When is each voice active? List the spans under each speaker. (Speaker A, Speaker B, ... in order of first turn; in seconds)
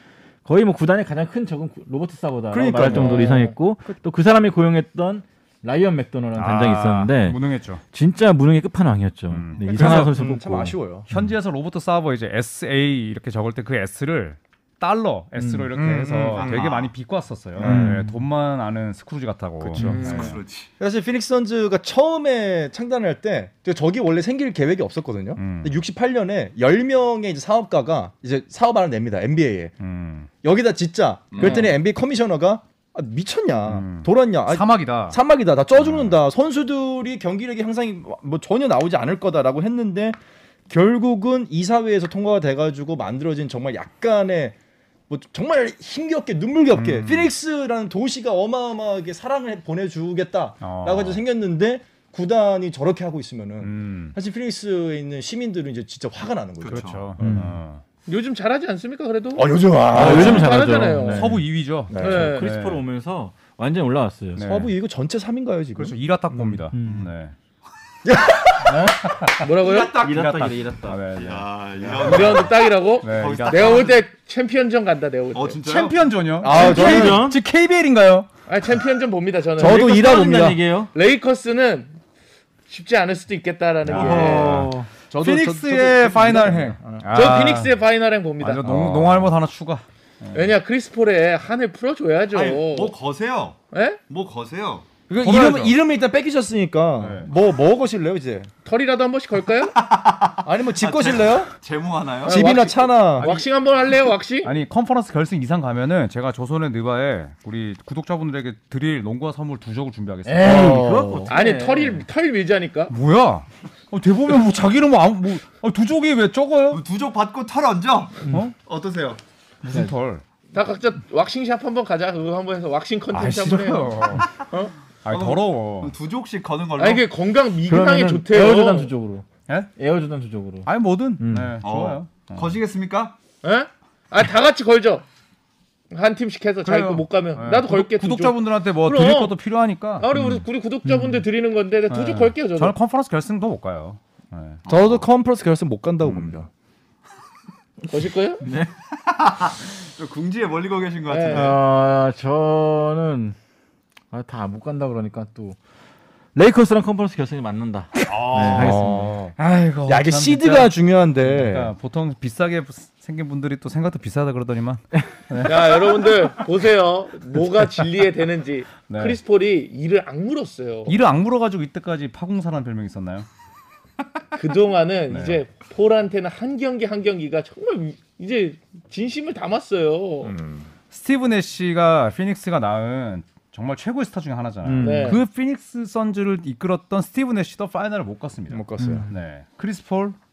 Speaker A: 0.4-7.4, 7.9-11.3, 15.4-15.7, 17.6-18.2, 57.2-57.5, 59.9-61.4, 62.0-64.5, 66.7-67.1, 68.6-71.0, 76.5-77.4, 79.6-80.9, 83.9-84.9, 110.2-112.0, 118.2-118.5, 127.7-130.7, 131.2-131.6, 140.1-141.2, 148.4-148.7, 151.3-153.3, 154.1-155.6, 156.3-159.2, 184.6-185.2, 188.8-189.1
Speaker B: 2.5-3.5, 9.7-11.1, 15.7-16.7, 17.6-18.0, 19.6-29.7, 30.4-40.2, 40.7-44.5, 45.1-57.5, 59.3-60.5, 61.9-62.3, 64.4-66.5, 68.0-68.9, 76.4-77.3, 79.5-80.6, 85.1-87.0, 88.6-89.3, 95.1-98.5, 100.4-101.5, 102.2-103.3, 110.4-111.3, 144.7-146.5, 158.3-161.7, 180.2-180.7, 188.5-189.1
Speaker C: 2.9-3.5, 19.8-20.3, 58.1-61.4, 62.0-62.5, 69.4-70.0, 72.0-75.6, 78.5-79.8, 80.9-82.0, 82.7-84.7, 87.1-88.8, 90.3-92.9, 93.7-94.0, 98.6-99.8, 102.2-104.5, 111.3-112.9, 120.5-124.7, 126.8-128.9, 133.4-135.0, 135.9-139.3, 140.0-142.7, 147.8-148.4, 151.1-151.5, 165.4-171.0, 174.3-180.3, 184.8-185.2
Speaker D: 6.3-7.8, 9.3-10.2, 11.1-20.4, 25.4-25.8, 29.8-30.3, 33.7-35.2, 35.7-36.2, 46.7-47.3, 50.6-51.2, 53.6-54.1, 56.6-57.8, 59.9-62.8, 64.3-64.7, 65.8-67.3, 69.0-72.5, 73.0-73.9, 75.6-78.3, 83.8-87.8, 88.4-90.5, 95.2-95.8, 97.0-97.3, 103.2-103.4, 104.4-110.9, 112.9-116.8, 119.6-120.2, 123.1-124.3, 125.0-125.9, 130.6-132.6, 136.6-140.2, 141.9-144.6, 159.4-165.8, 168.8-169.2, 170.9-173.2, 175.1-175.4, 180.9-190.2
Speaker E: 9.5-9.8, 16.3-16.9, 20.0-20.7, 31.3-31.7, 56.6-57.1, 66.8-67.1, 71.2-74.0, 75.3-76.1, 92.3-94.9, 99.7-102.6, 116.7-119.2, 125.1-127.1, 131.6-133.2, 144.6-145.1, 148.9-151.6, 158.1-158.8